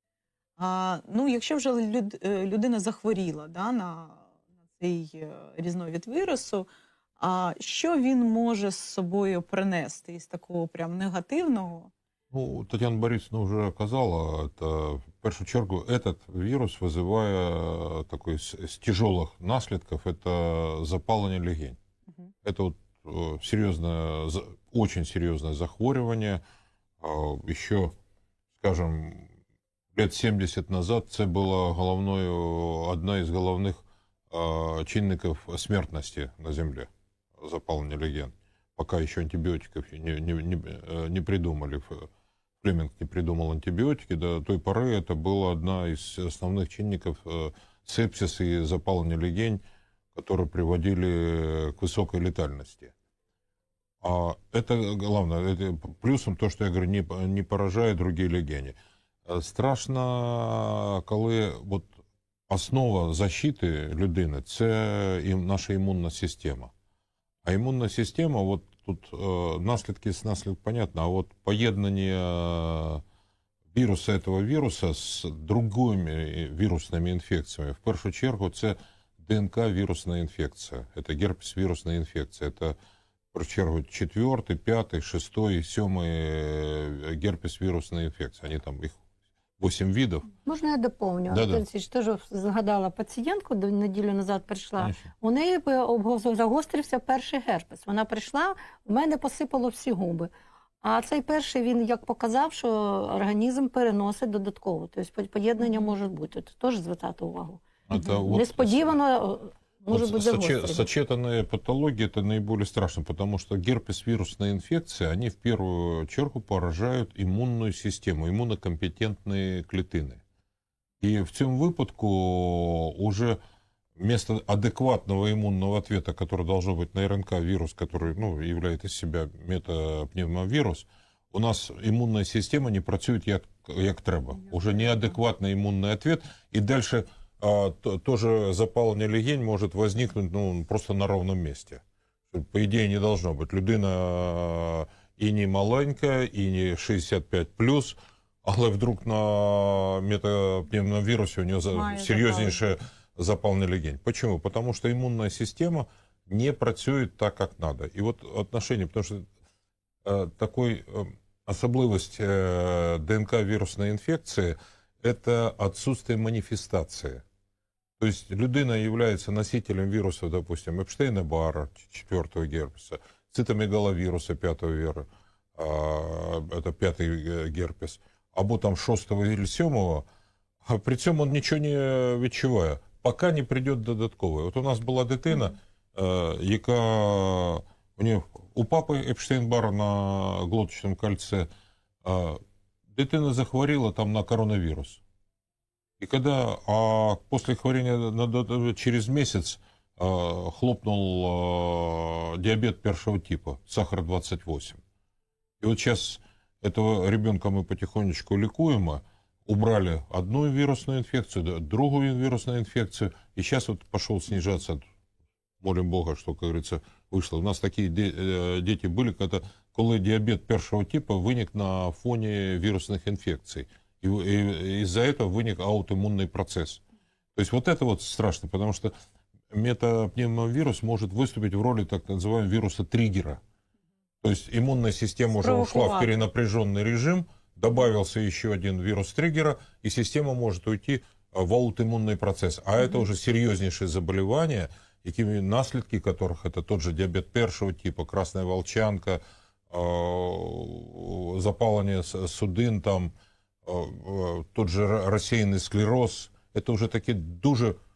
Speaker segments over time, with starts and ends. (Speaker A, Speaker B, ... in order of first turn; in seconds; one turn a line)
Speaker A: 0.6-4.2
Speaker A: 4.8-6.7
Speaker A: 7.2-11.9
Speaker B: 12.3-21.8
Speaker B: 22.4-26.4
Speaker B: 27.0-27.9
Speaker B: 28.6-29.3
Speaker B: 29.9-42.1
Speaker B: 42.6-49.6
Speaker B: 50.1-52.9
Speaker B: 54.0-58.7
Speaker B: 59.2-61.9
Speaker B: 62.5-66.7
Speaker B: 67.4-73.0
Speaker B: 73.7-82.8
Speaker B: 83.3-89.0
Speaker B: 89.6-90.3
Speaker C: 90.5-100.3
Speaker B: 91.3-91.6
Speaker B: 94.8-95.1
Speaker C: 100.8-110.9
Speaker B: 107.9-109.0
Speaker B: 109.9-120.2
Speaker B: 121.0-123.4
Speaker B: 124.0-159.3
Speaker A: 151.7-152.6
Speaker B: 160.0-167.2
Speaker B: 168.0-180.1
Speaker B: 180.6-191.5
Speaker B: 192.0-192.4
Speaker B: 192.9-195.0
Speaker B: 196.0-204.8
Speaker B: 205.6-214.8
Speaker B: 215.6-226.8
Speaker B: 227.3-228.9
Speaker B: 229.5-233.4
Speaker B: 234.2-253.1
Speaker A: 235.4-236.2
Speaker B: 253.6-257.8